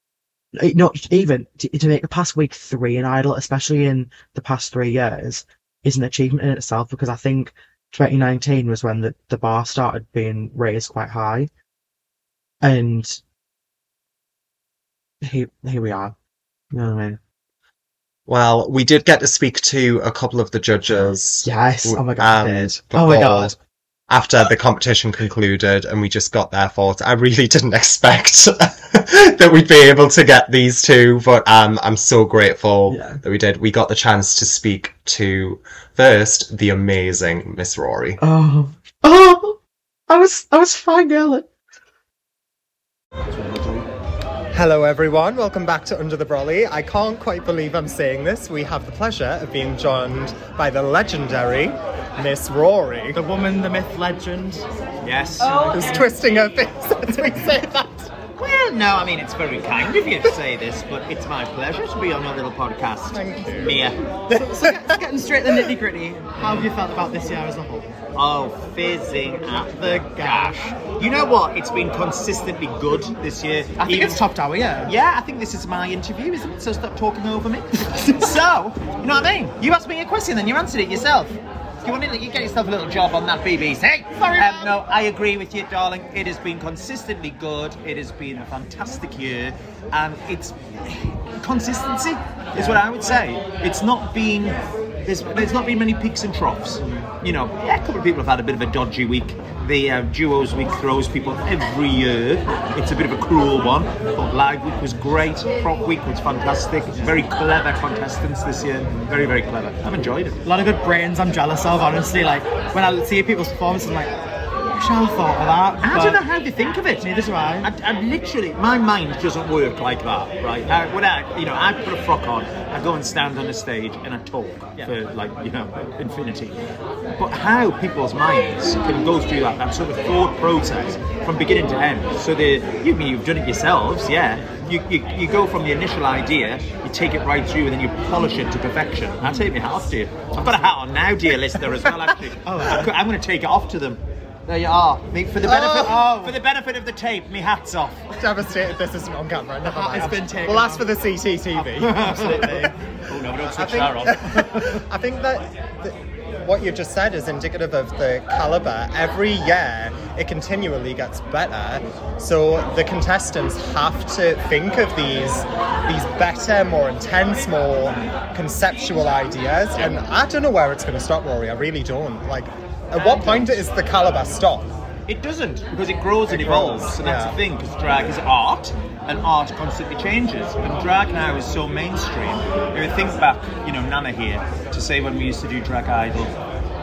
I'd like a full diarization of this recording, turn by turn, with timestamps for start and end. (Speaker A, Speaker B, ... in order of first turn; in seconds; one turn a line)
Speaker A: 0.5-11.5
Speaker A: 12.6-13.2
Speaker A: 15.2-16.1
Speaker A: 16.7-17.2
Speaker B: 18.3-23.6
Speaker A: 20.9-23.5
Speaker B: 24.1-38.2
Speaker A: 32.9-33.2
Speaker A: 38.2-39.6
Speaker A: 40.1-41.5
Speaker C: 43.3-43.8
Speaker D: 44.5-53.2
Speaker E: 53.1-54.6
Speaker C: 55.0-55.8
Speaker E: 55.4-56.1
Speaker D: 55.7-58.1
Speaker C: 58.4-64.0
Speaker D: 63.1-63.9
Speaker E: 64.3-67.9
Speaker D: 64.6-64.9
Speaker C: 66.4-66.7
Speaker C: 68.1-74.2
Speaker E: 69.8-70.6
Speaker E: 73.8-74.9
Speaker C: 74.8-110.4
Speaker E: 78.0-78.3
Speaker E: 84.2-84.7
Speaker E: 92.5-92.8
Speaker E: 96.8-97.0
Speaker E: 110.4-116.2
Speaker C: 115.8-117.1
Speaker E: 117.0-117.7
Speaker C: 117.6-126.6
Speaker C: 127.2-148.1
Speaker E: 139.2-139.5
Speaker E: 140.4-140.7
Speaker E: 142.4-143.0
Speaker D: 145.4-145.9
Speaker E: 145.7-146.4
Speaker D: 148.2-152.7
Speaker E: 149.6-150.9
Speaker E: 151.5-152.7
Speaker C: 152.1-152.4
Speaker C: 153.1-154.8
Speaker D: 153.4-174.7
Speaker C: 175.1-186.3
Speaker D: 176.2-177.4